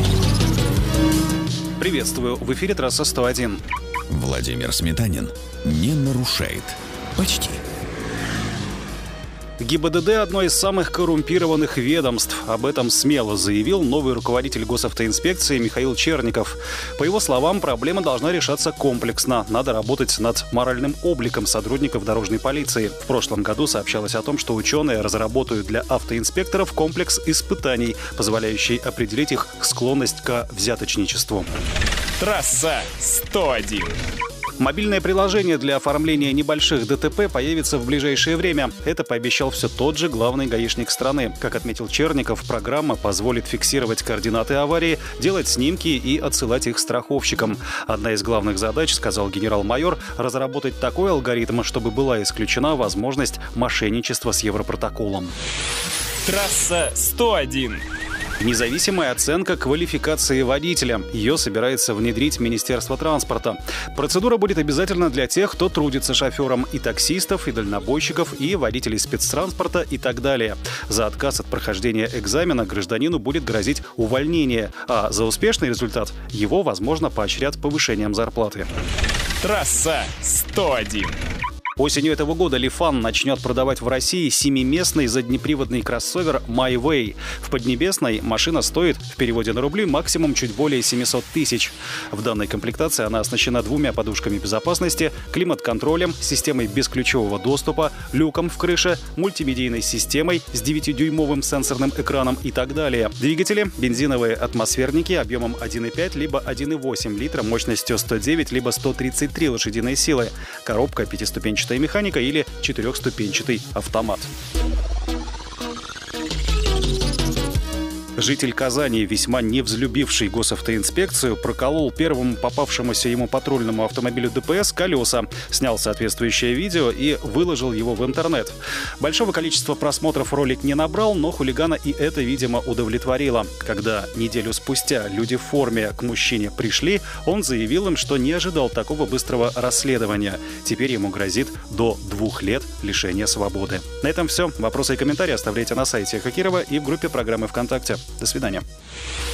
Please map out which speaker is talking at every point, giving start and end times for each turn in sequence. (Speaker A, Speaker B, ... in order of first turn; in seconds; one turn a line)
Speaker A: 1.8-3.6
Speaker B: 4.1-7.6
Speaker A: 9.6-31.5
Speaker C: 32.2-34.0
Speaker A: 34.6-55.3
Speaker C: 56.2-57.8
Speaker A: 58.4-78.7
Speaker C: 79.4-81.2
Speaker A: 81.8-114.3
Speaker A: 118.2-148.6